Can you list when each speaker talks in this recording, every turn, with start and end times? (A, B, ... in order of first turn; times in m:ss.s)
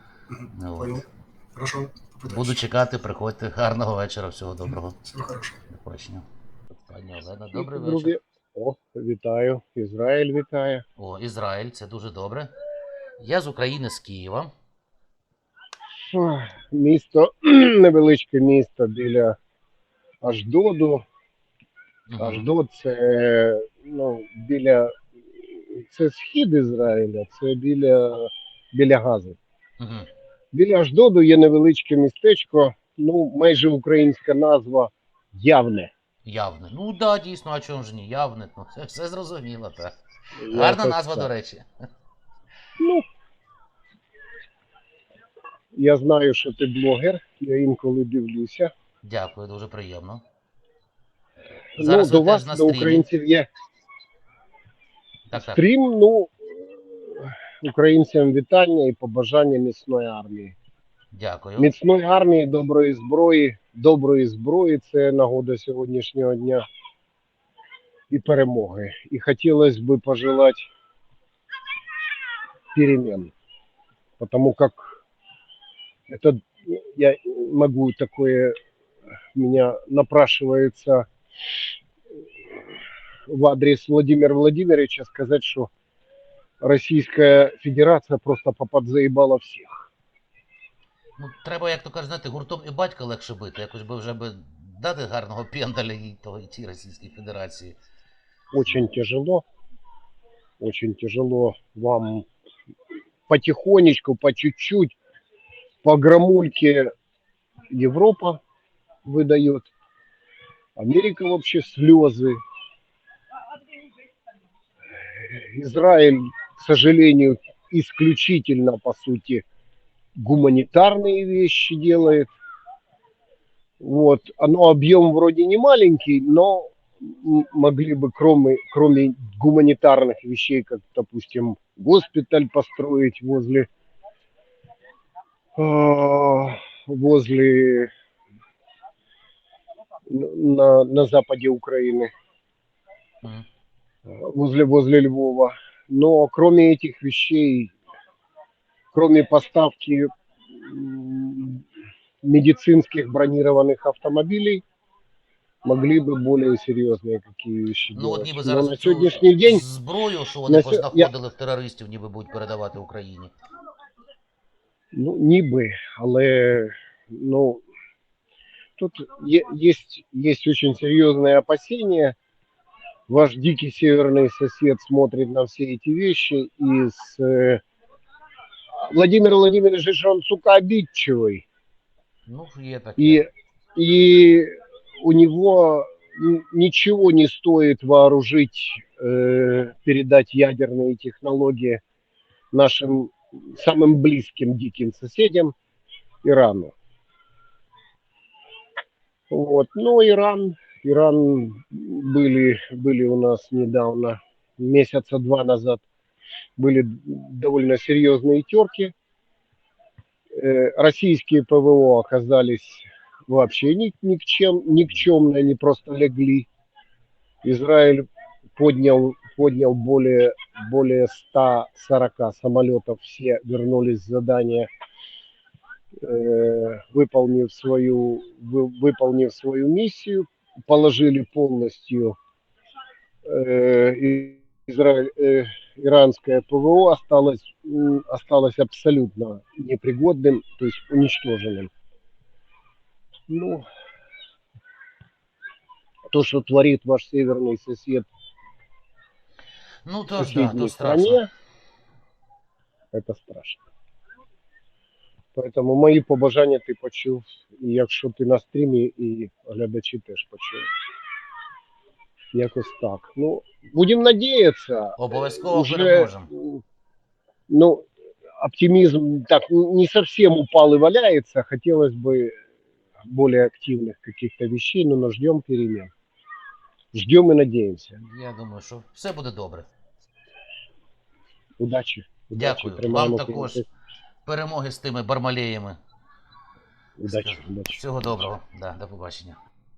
0:00.3-0:01.0 A
0:00.6-0:01.0 B
0:01.6-0:02.6 A
0:02.3-0:05.0 B
0:05.0-0:05.6 A
0:05.7-0:06.2 B
0:06.8-0:08.1 B
0:07.5-0:10.8 C
0:11.0-0:12.5 B
0:13.2-0:14.5 B
0:16.1-0:19.4 C
0:20.2-0:21.0 C
0:22.1-0:22.5 B
0:22.2-0:24.9 C
0:25.6-0:29.4 C
0:29.8-0:30.1 B
0:30.5-0:35.9 C
0:36.2-0:39.9 B
0:40.4-0:41.3 C
0:40.5-0:41.7 B
0:42.8-0:43.0 C
0:45.7-0:48.7 C
0:49.0-0:50.2 B
0:51.8-0:53.5 C
0:51.8-0:53.1 B
0:55.3-0:55.6 B
0:55.3-0:56.5 C
0:57.2-1:00.6 C
1:01.1-1:01.7 B
1:01.6-1:06.6 C
1:08.1-1:10.7 C
1:12.7-1:13.3 C
1:14.2-1:14.9 C
1:16.1-1:18.6 C
1:19.4-1:21.1 C
1:23.3-1:25.7 C
1:26.6-1:29.9 C
1:31.2-1:37.8 B
1:38.5-1:39.4 C
1:40.6-1:42.3 C
1:43.3-1:45.0 C
1:45.8-1:46.9 C
1:47.7-1:48.4 C
1:49.0-1:49.7 C
1:50.8-1:52.4 C
1:55.2-1:59.4 C
2:00.2-2:02.3 C
2:03.8-2:13.7 C
2:15.6-2:17.9 C
2:20.1-2:22.1 C
2:24.1-2:27.7 C
2:28.9-2:31.6 C
2:32.2-2:34.6 C
2:35.6-2:39.6 C
2:37.9-2:43.3 B
2:40.5-2:41.1 C
2:44.9-2:47.6 C
2:48.8-2:52.2 C
2:53.1-2:57.6 C
2:58.7-3:01.5 C
3:02.3-3:03.3 B
3:03.0-3:11.8 C
3:12.5-3:15.5 C
3:16.2-3:16.7 C
3:19.3-3:25.8 C
3:26.6-3:28.9 C
3:30.4-3:36.5 C
3:37.4-3:44.7 C
3:46.0-3:52.2 C
3:53.3-4:01.7 C
4:03.3-4:03.6 C
4:06.1-4:08.1 C
4:09.9-4:11.2 B
4:10.2-4:11.3 C
4:12.9-4:13.7 C
4:15.4-4:20.7 C
4:22.3-4:26.6 C
4:25.0-4:26.3 B
4:27.5-4:27.8 C
4:28.4-4:32.4 C
4:33.1-4:35.9 C
4:36.9-4:38.0 C
4:38.0-4:39.7 B
4:41.6-4:43.6 C
4:42.3-4:43.6 B
4:44.3-4:45.8 B
4:47.0-4:47.8 C
4:47.1-4:49.4 B